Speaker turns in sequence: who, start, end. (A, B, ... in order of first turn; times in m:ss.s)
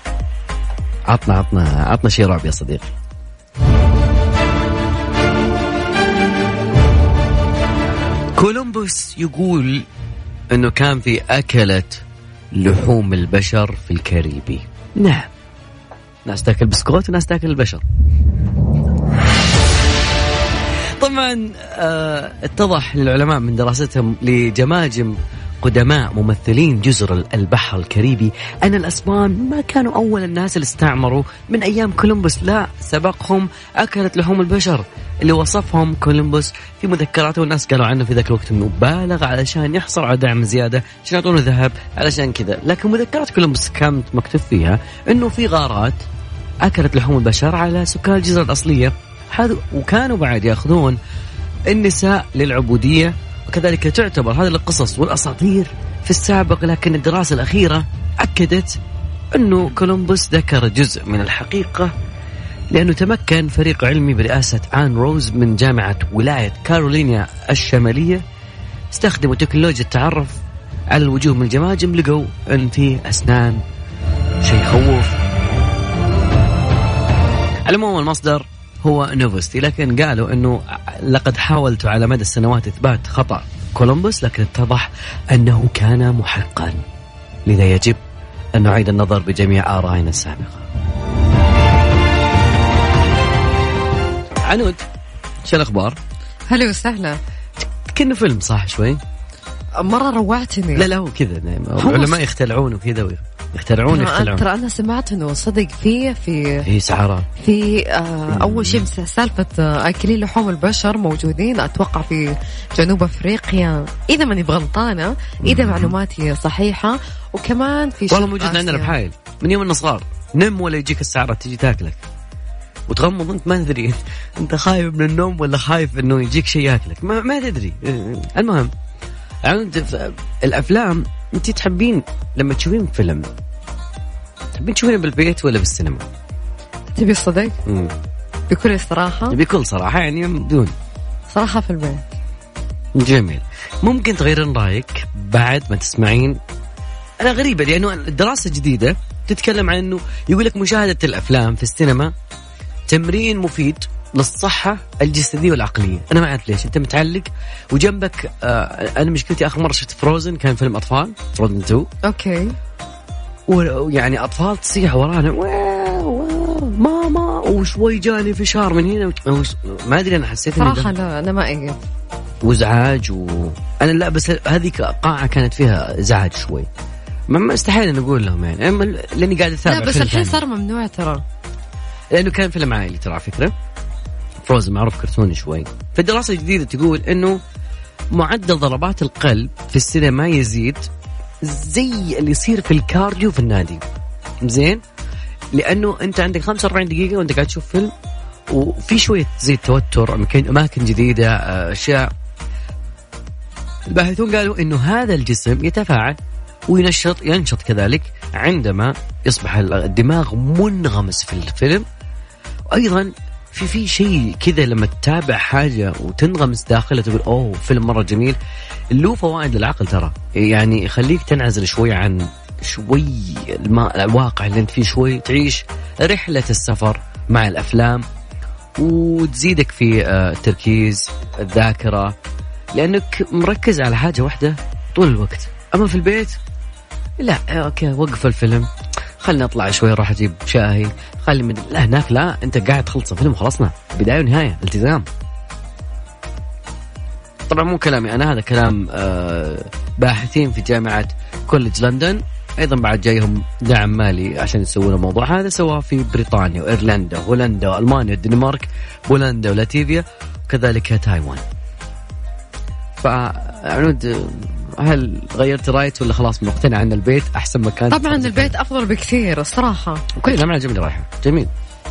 0:01.1-0:02.9 A
0:08.4-0:09.9 A
0:10.5-0:12.0 A
0:12.5-0:15.3 A
0:16.3-0:17.8 A
0:21.0-0:46.0 A
0:46.6-0:51.0 A
0:51.7-0:58.8 A
0:59.3-1:01.9 A
1:02.7-1:08.2 A
1:08.9-1:13.6 A
1:14.4-1:15.2 A
1:17.7-1:26.8 A
1:27.5-1:28.0 A
1:28.6-1:30.6 A
1:34.4-1:34.8 A
1:35.5-1:36.0 A
1:36.5-1:37.2 B
1:37.6-1:39.0 A
1:39.8-1:40.9 B
1:40.8-1:44.4 A
1:41.8-1:42.2 B
1:43.9-1:46.6 B
1:46.6-1:47.3 A
1:47.4-1:59.0 B
1:48.3-1:48.9 A
1:55.4-1:55.9 A
1:58.1-2:02.0 A
2:02.9-2:08.7 A
2:09.4-2:13.3 A
2:14.6-2:16.1 A
2:17.0-2:17.6 B
2:17.7-2:17.9 A
2:18.5-2:19.4 B
2:19.3-2:20.7 A
2:21.3-2:22.0 B
2:23.0-2:26.4 A
2:27.2-2:32.1 A
2:32.9-2:41.9 A
2:42.0-2:42.6 B
2:43.5-2:50.9 A
2:50.6-2:51.8 B
2:52.4-2:56.7 A
2:57.3-3:00.4 A
2:59.7-3:01.2 B
3:02.1-3:03.5 A
3:04.5-3:07.4 A
3:08.1-3:10.9 A
3:11.4-3:13.8 A
3:14.4-3:14.8 A
3:15.5-3:17.9 A
3:18.5-3:22.1 A
3:23.9-3:26.2 A
3:26.7-3:31.8 A
3:32.7-3:38.4 A
3:38.9-3:48.0 A
3:48.8-3:52.2 A
3:52.8-3:56.4 A
3:57.2-3:58.7 A
3:59.2-4:05.1 A
4:07.5-4:21.4 A
4:23.0-4:28.6 A
4:27.9-4:30.4 B
4:30.2-4:31.5 A